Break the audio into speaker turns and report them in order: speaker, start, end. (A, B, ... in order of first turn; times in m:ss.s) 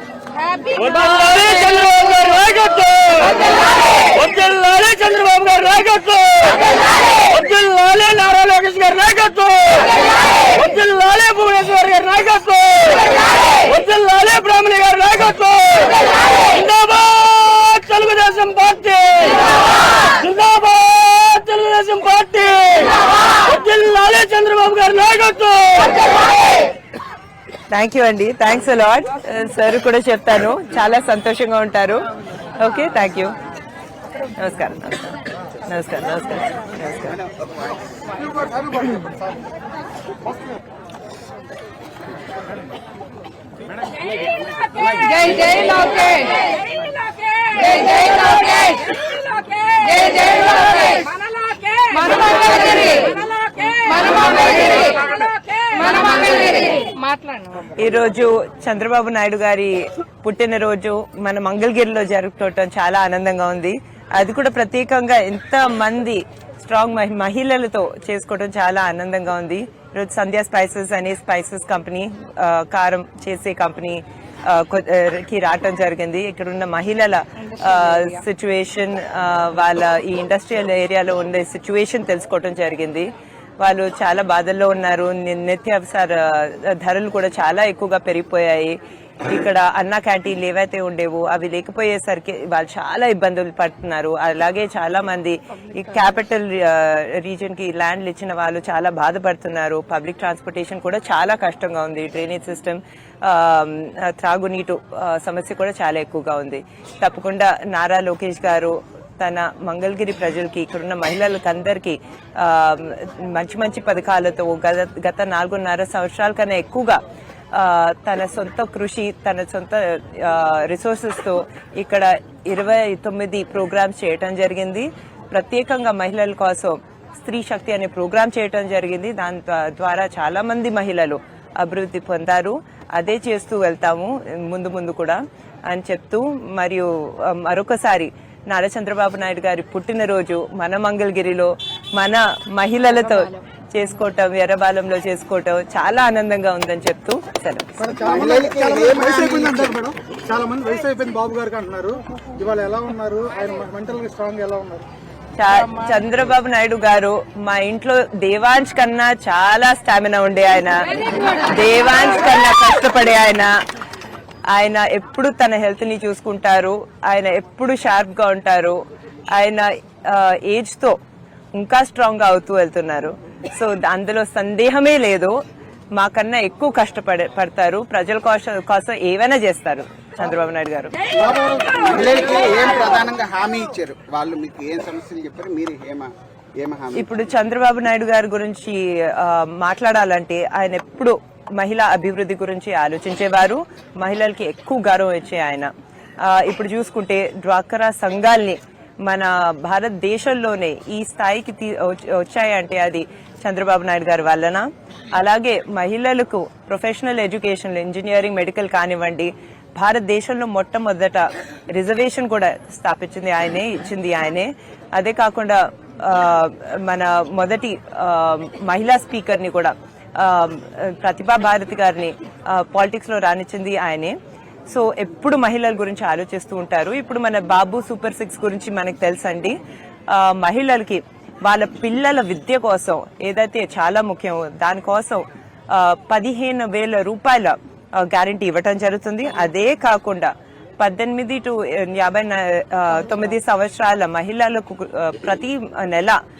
0:00.3-0:02.4 A
0:00.7-0:03.6 B
0:03.3-0:04.1 A
0:04.1-0:26.1 B
0:27.7-0:32.0 C
0:32.6-0:33.3 C
0:34.4-0:37.2 C
0:38.2-0:39.0 D
0:44.8-0:57.5 A
0:57.6-1:57.0 C
1:57.5-2:28.0 C
2:27.8-2:34.9 D
2:28.0-2:29.7 E
2:35.4-2:43.5 C
2:44.5-2:48.8 C
2:49.3-2:51.0 C
2:51.5-2:55.3 C
2:56.0-3:01.1 C
3:01.3-3:07.1 E
3:06.9-3:44.1 C
3:44.7-3:49.6 C
3:50.1-4:06.2 C